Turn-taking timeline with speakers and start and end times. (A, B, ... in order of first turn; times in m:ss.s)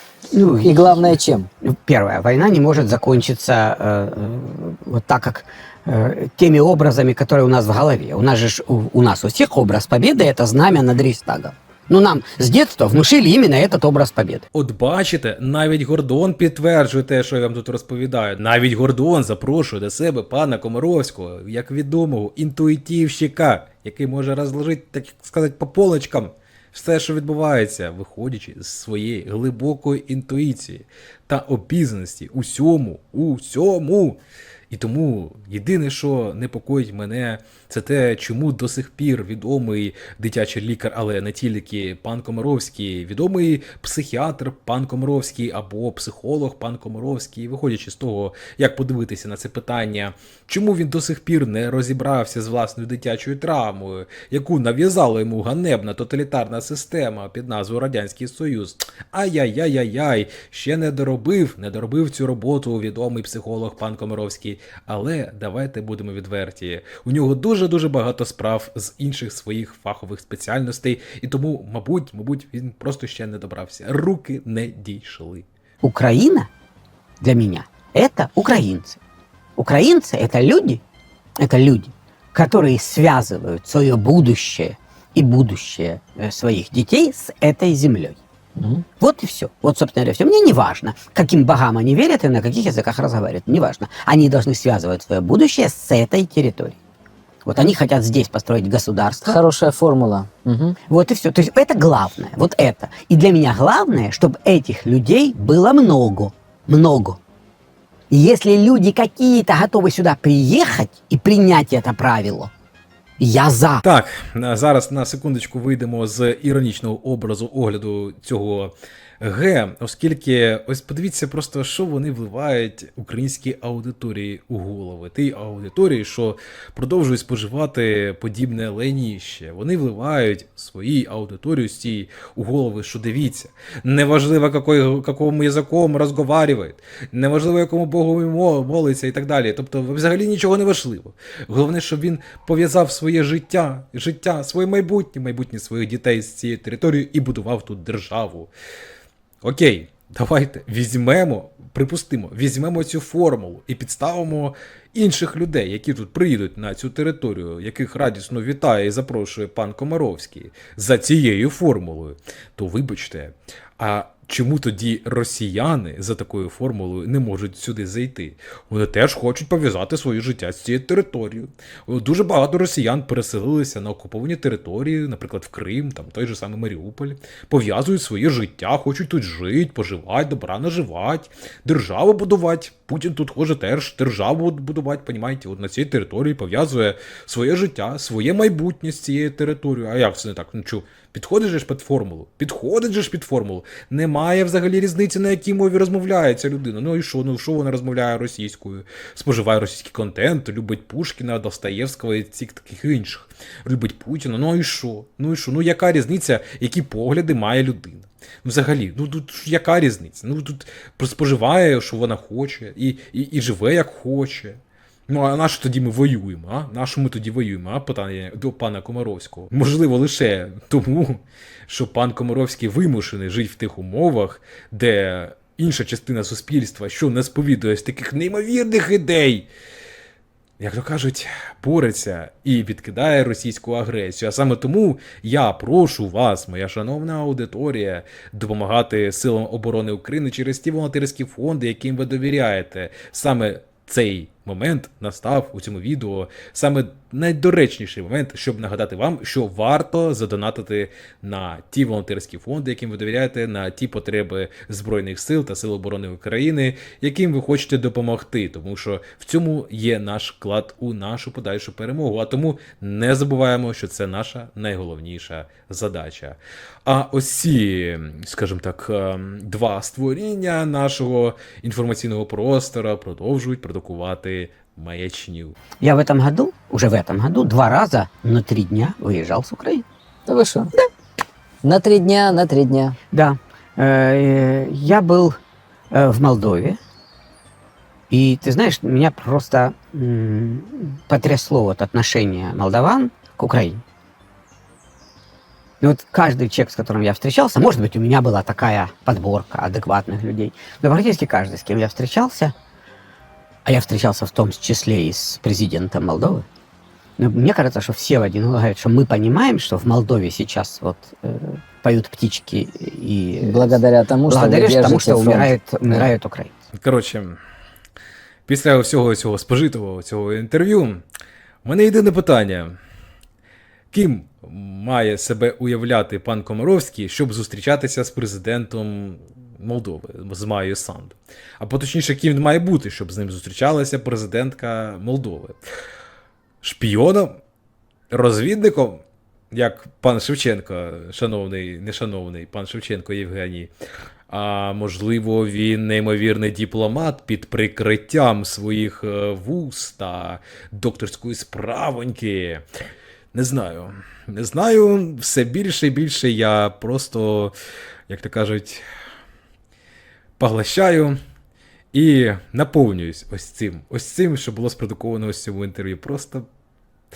0:00.3-0:14.4 A
0:00.6-0:01.5 B
0:14.5-0:34.2 C
0:34.7-1:15.5 C
1:15.8-1:16.5 A
1:17.2-1:19.0 A
1:19.6-1:20.8 A
1:21.4-1:28.2 A
1:28.6-1:28.8 B
1:29.0-1:36.8 A
1:37.4-1:39.4 A
1:39.2-1:40.8 B
1:40.9-1:47.2 A
1:48.1-1:52.5 A
1:53.2-1:53.8 A
1:53.8-2:28.5 C
2:29.4-3:49.5 C
3:50.6-4:35.6 C
4:35.8-4:39.8 A
4:40.3-4:40.7 B
4:41.6-4:43.0 B
4:43.1-4:45.3 A
4:45.9-4:46.8 A
4:48.1-4:53.8 A
4:55.8-5:02.5 A
5:03.6-5:06.5 A
5:07.2-5:16.5 A
5:13.4-5:16.1 B
5:16.8-5:17.4 C
5:18.5-5:21.0 C
5:21.6-5:22.8 C
5:23.9-5:35.6 C
5:36.6-5:37.4 C
5:38.1-5:43.7 C
5:44.3-5:52.6 C
5:53.3-5:57.5 C
5:58.1-5:58.8 C
6:00.4-6:01.2 C
6:01.9-6:06.4 C